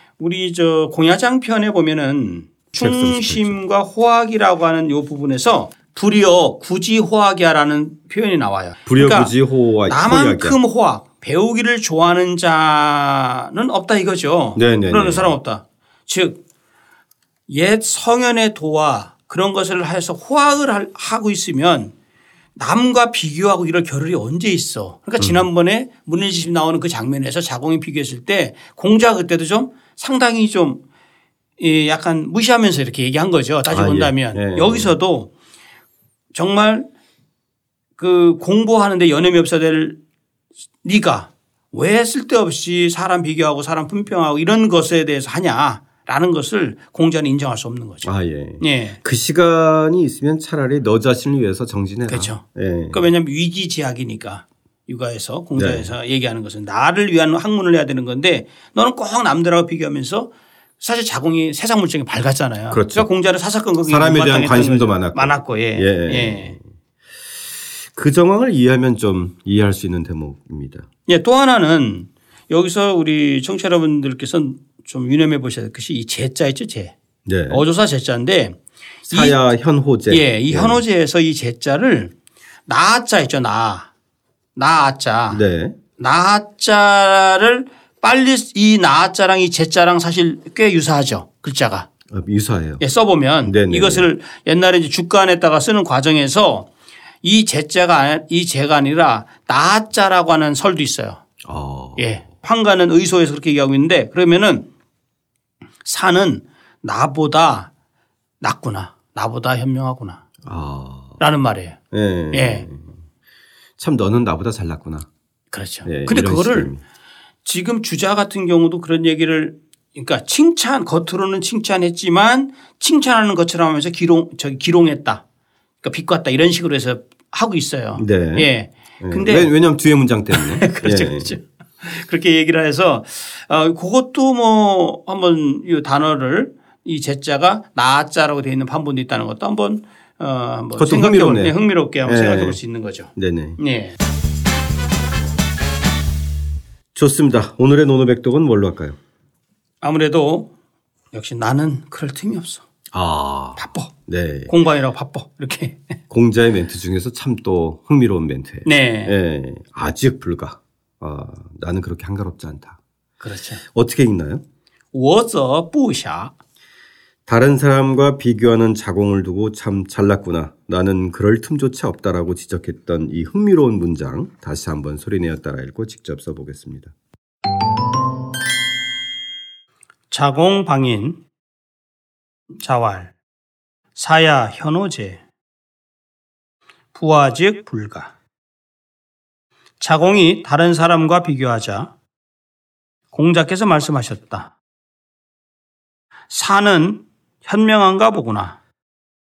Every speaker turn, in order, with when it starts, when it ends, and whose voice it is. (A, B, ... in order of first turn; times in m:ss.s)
0:00.2-0:09.3 A
0:02.8-0:03.6 B
0:08.8-0:10.6 B
0:09.9-0:16.4 A
0:14.6-0:15.3 B
0:17.5-0:21.9 A
0:22.6-0:30.8 A
0:25.2-0:25.4 B
0:31.6-0:35.3 A
0:33.7-0:34.9 B
0:36.3-0:36.9 A
0:38.0-0:40.0 A
0:40.8-0:48.1 A
0:48.0-0:53.1 B
0:48.6-0:49.0 A
0:52.1-1:00.3 A
0:55.6-0:55.9 B
1:00.8-1:06.6 A
1:02.7-1:03.1 B
1:03.8-1:06.6 B
1:07.5-1:10.9 B
1:11.1-1:16.9 A
1:17.2-1:17.6 B
1:17.5-1:19.5 A
1:19.1-1:20.8 B
1:20.1-1:22.1 A
1:22.7-1:23.9 A
1:24.6-1:25.4 A
1:25.3-1:25.8 B
1:26.0-1:31.9 A
1:32.1-1:32.8 B
1:32.8-1:36.7 A
1:33.4-1:34.1 B
1:37.2-1:41.2 A
1:41.4-1:42.1 B
1:42.0-1:44.7 A
1:45.8-1:47.7 A
1:48.4-1:50.2 A
1:50.4-1:51.2 B
1:51.2-1:51.8 A
1:51.9-1:53.0 B
1:52.3-1:52.7 A
1:53.8-1:55.1 B
1:55.5-1:56.7 A
1:55.8-1:56.8 B
1:57.4-2:05.2 A
2:05.8-2:09.5 A
2:07.9-2:08.5 B
2:09.0-2:11.4 B
2:10.3-2:24.0 A
2:20.8-2:22.6 B
2:23.2-2:23.6 B
2:26.9-2:29.0 B
2:29.8-2:30.5 A
2:31.1-2:32.6 A
2:32.9-2:34.5 B
2:33.6-2:33.9 A
2:34.5-2:35.8 A
2:36.1-2:42.8 B
2:38.6-2:39.1 A
2:43.2-2:43.6 A
2:43.6-2:44.4 B
2:44.9-2:46.3 A
2:47.2-2:56.9 B
3:00.1-3:01.2 A
3:02.6-3:03.1 A
3:04.0-3:05.2 A
3:06.9-3:08.1 A
3:09.8-3:11.9 A
3:13.1-3:14.5 A
3:16.3-3:18.6 A